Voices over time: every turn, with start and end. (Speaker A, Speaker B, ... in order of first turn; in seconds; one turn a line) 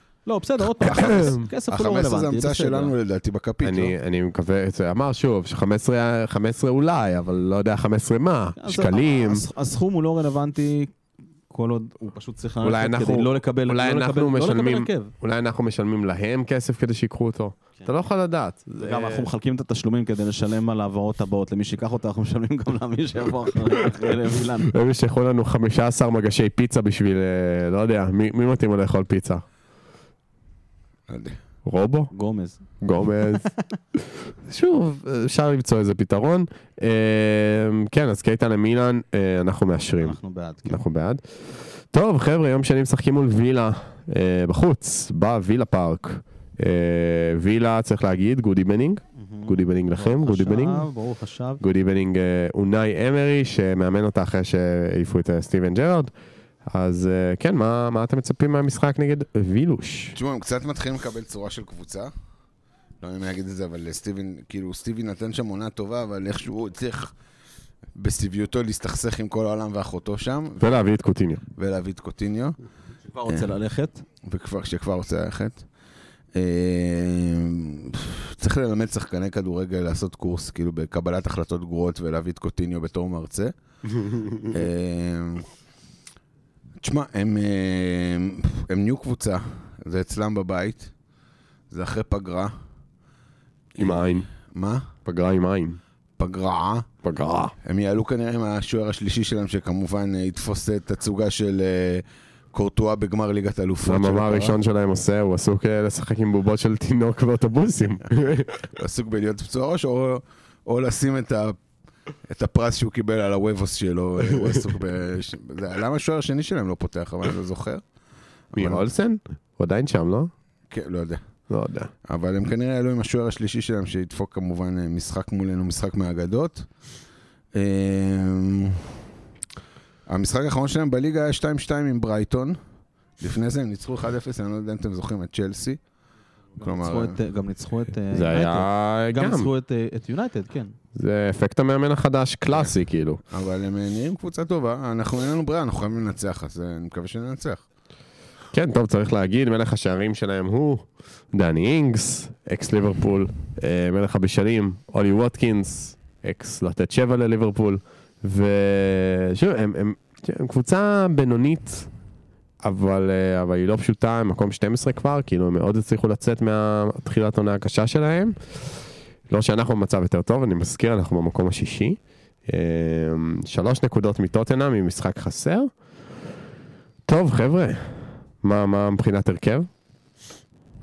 Speaker A: 0.3-2.9
Speaker B: 0.8-1.5
Speaker C: 0.8-3.9
Speaker B: 3.6-9.5
Speaker A: 8.6-10.9
Speaker A: 11.5-15.1
Speaker B: 12.6-19.3
Speaker A: 18.8-24.7
Speaker B: 24.6-29.4
Speaker C: 31.1-31.4
Speaker B: 31.6-32.1
Speaker A: 32.1-32.6
Speaker B: 32.8-50.9
Speaker A: 40.0-40.8
Speaker A: 49.1-51.6
Speaker B: 51.6-56.1
Speaker B: 56.7-60.2
Speaker C: 60.1-62.1
Speaker C: 63.0-67.1
Speaker C: 67.9-70.7
Speaker B: 70.6-71.4
Speaker C: 71.5-72.6
Speaker A: 73.1-74.0
Speaker C: 74.2-75.6
Speaker C: 76.3-83.5
Speaker B: 84.0-84.6
Speaker C: 84.5-85.5
Speaker C: 86.8-90.9
Speaker C: 91.7-92.5
Speaker C: 93.8-94.9
Speaker B: 93.8-94.3
Speaker B: 95.0-95.8
Speaker C: 96.2-96.9
Speaker B: 97.0-97.5
Speaker C: 97.6-104.6
Speaker B: 103.8-108.7
Speaker C: 108.8-111.6
Speaker C: 112.3-117.8
Speaker C: 118.5-118.9
Speaker B: 118.5-120.3
Speaker C: 120.7-121.2
Speaker B: 121.5-121.9
Speaker C: 122.1-126.7
Speaker C: 127.5-128.9
Speaker C: 130.1-132.6
Speaker C: 133.2-135.8
Speaker C: 136.6-137.2
Speaker A: 136.6-140.8
Speaker B: 138.1-139.5
Speaker B: 140.9-143.2
Speaker C: 143.3-147.6
Speaker B: 148.5-161.9
Speaker B: 162.6-168.4
Speaker B: 169.3-175.7
Speaker B: 177.1-179.7